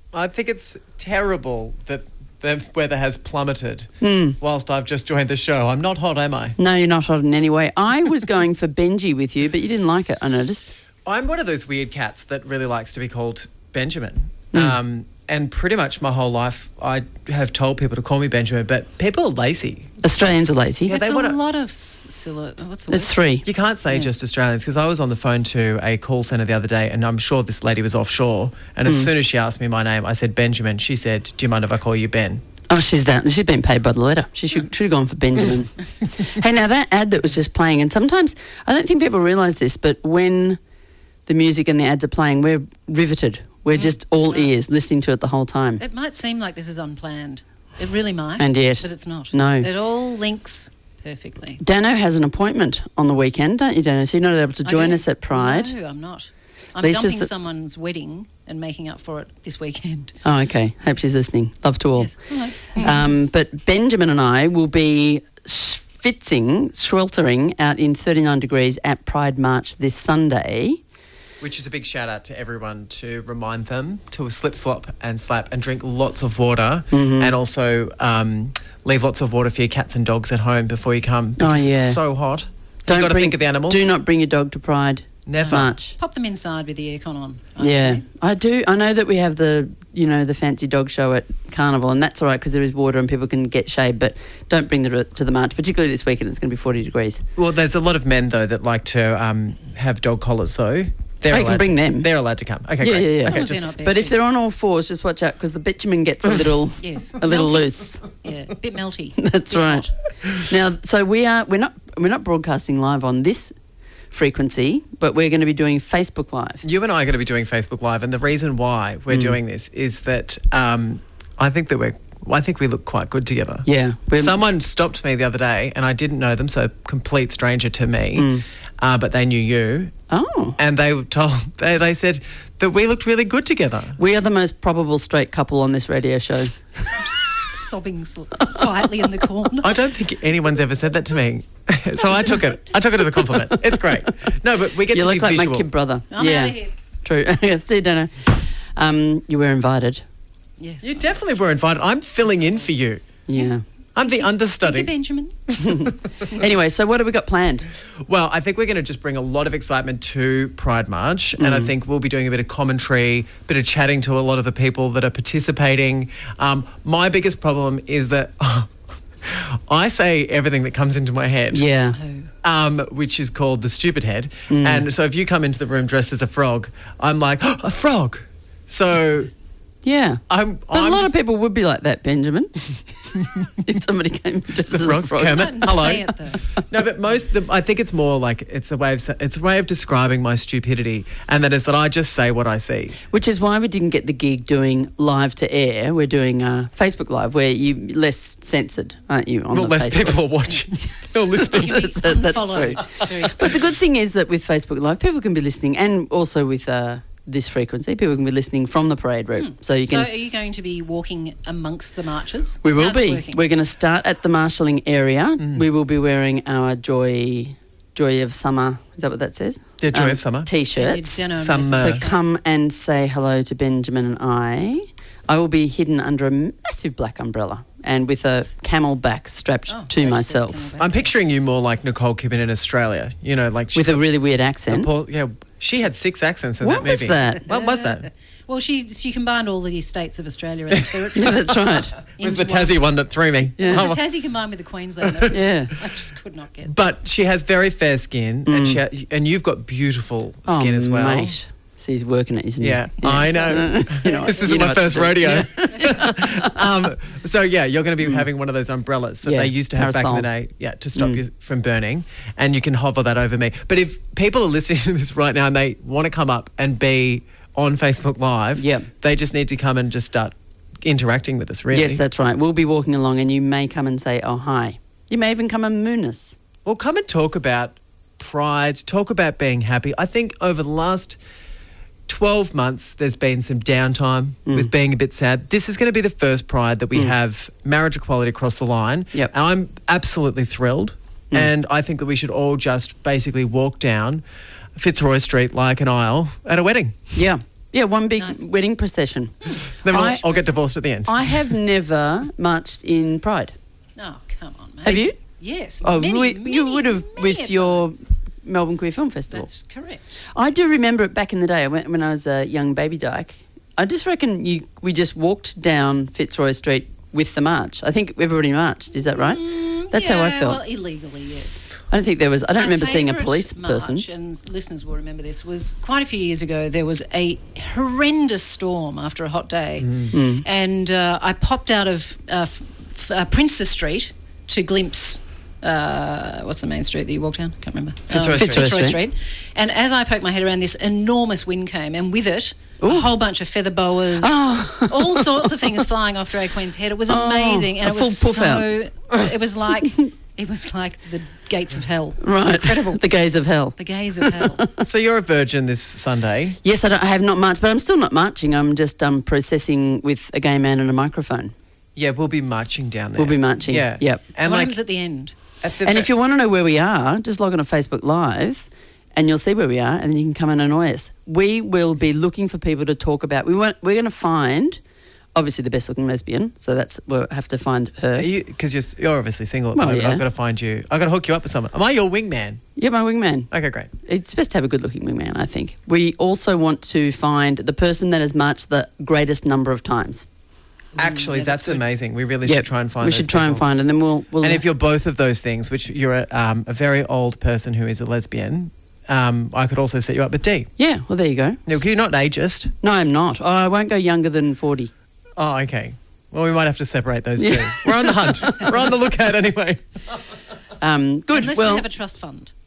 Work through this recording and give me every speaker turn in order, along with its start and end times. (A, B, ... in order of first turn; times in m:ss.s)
0:00.1-0:06.6 A
0:04.0-0:04.4 B
0:06.6-0:10.7 B
0:11.0-0:19.9 A
0:20.0-0:21.0 B
0:20.9-0:21.4 A
0:20.9-0:23.1 C
0:22.9-0:23.4 B
0:23.4-0:32.4 A
0:28.8-0:29.1 B
0:32.7-0:40.6 B
0:41.2-0:45.8 B
0:43.7-0:44.5 C
0:45.8-0:51.6 C
0:48.4-0:49.7 B
0:51.6-0:55.7 B
0:54.6-1:00.1 C
0:56.8-0:57.3 B
1:00.2-1:10.8 B
1:02.0-1:02.9 C
1:11.4-1:23.9 A
1:16.9-1:17.3 B
1:21.4-1:22.0 B
1:22.9-1:25.9 B
1:25.3-1:25.7 A
1:25.4-1:28.0 C
1:27.6-1:37.2 B
1:37.4-1:43.6 A
1:41.3-1:42.1 B
1:42.8-1:48.0 B
1:43.2-1:44.2 C
1:46.8-1:49.9 C
1:49.2-1:53.5 B
1:54.1-1:56.6 B
1:56.6-2:03.6 A
1:59.1-1:59.4 B
2:03.6-2:04.4 B
2:04.2-2:09.9 A
2:08.1-2:08.4 B
2:10.1-2:10.6 B
2:10.6-2:14.0 A
2:14.0-2:16.9 B
2:16.9-2:19.8 C
2:19.6-2:25.7 A
2:23.3-2:23.8 B
2:24.9-2:30.0 B
2:26.1-2:26.7 C
2:30.6-2:31.1 C
2:30.8-2:33.0 A
2:33.3-2:33.6 B
2:33.3-2:35.3 C
2:34.0-2:34.9 A
2:35.5-2:35.9 A
2:35.6-2:37.7 B
2:38.0-2:48.7 A
2:41.4-2:41.7 B
2:49.2-2:51.6 A
2:51.5-2:52.0 B
2:52.0-2:52.3 C
2:52.4-2:59.3 A
2:54.5-2:54.8 B
2:59.8-3:02.7 B
3:00.3-3:01.1 A
3:03.6-3:06.0 B
3:04.7-3:13.0 A
3:05.3-3:06.4 C
3:13.1-3:20.3 B
3:19.5-3:21.9 A
3:21.4-3:23.6 C
3:21.4-3:30.1 B
3:29.3-3:33.4 C
3:32.6-3:50.7 B
3:39.8-3:40.5 A
3:40.7-3:42.2 C
3:41.4-3:42.0 A
3:49.7-3:51.1 C
3:50.8-3:54.0 A
3:53.7-3:54.9 B
3:54.7-3:58.1 A
3:56.6-3:57.5 B
3:57.5-4:01.5 C
4:00.7-4:01.2 A
4:01.1-4:01.9 B
4:02.2-4:02.8 C
4:02.2-4:04.0 A
4:03.6-4:03.9 B
4:03.6-4:06.7 C
4:05.0-4:05.3 A
4:05.3-4:05.7 B
4:06.7-4:11.4 A
4:08.4-4:08.8 B
4:10.5-4:16.6 B
4:12.6-4:32.0 A
4:13.0-4:14.7 C
4:15.7-4:16.0 C
4:19.2-4:20.3 B
4:20.9-4:21.2 B
4:28.6-4:28.9 B
4:31.7-4:36.4 B
4:36.6-4:41.2 A
4:42.1-4:54.2 A
4:54.8-4:57.2 A
4:57.1-5:00.2 B
4:58.2-4:58.4 C
4:59.8-5:01.4 A
5:01.0-5:03.5 B
5:04.0-5:08.0 C
5:04.8-5:05.2 B
5:05.8-5:09.5 B
5:09.3-5:10.2 C
5:10.3-5:20.6 B
5:19.1-5:21.7 C
5:21.9-5:24.0 B
5:22.6-5:53.0 C
5:29.8-5:30.1 A
5:30.1-5:30.4 B
5:38.1-5:38.8 A
5:38.4-5:39.0 B
5:42.8-5:43.1 B
5:44.2-5:45.8 B
5:47.1-5:48.7 B
5:49.8-5:50.1 B
5:52.2-5:54.7 B
5:53.8-5:54.6 C
5:54.8-5:56.6 A
5:56.6-6:01.5 B
6:02.0-6:04.8 A
6:03.2-6:04.2 B
6:04.4-6:05.3 C
6:05.6-6:06.1 A
6:05.8-6:14.8 B
6:15.3-6:18.3 B
6:18.1-6:22.6 A
6:19.7-6:20.2 B
6:22.8-6:23.5 B
6:23.5-6:23.9 A
6:24.0-6:30.3 B
6:31.0-6:31.8 C
6:31.0-6:33.6 A
6:32.4-6:34.6 B
6:34.4-6:40.7 A
6:40.8-6:41.6 B
6:41.7-6:42.7 A
6:42.8-6:44.9 B
6:45.4-6:49.8 A
6:47.4-6:48.7 B
6:50.8-6:51.9 B
6:51.3-6:52.5 C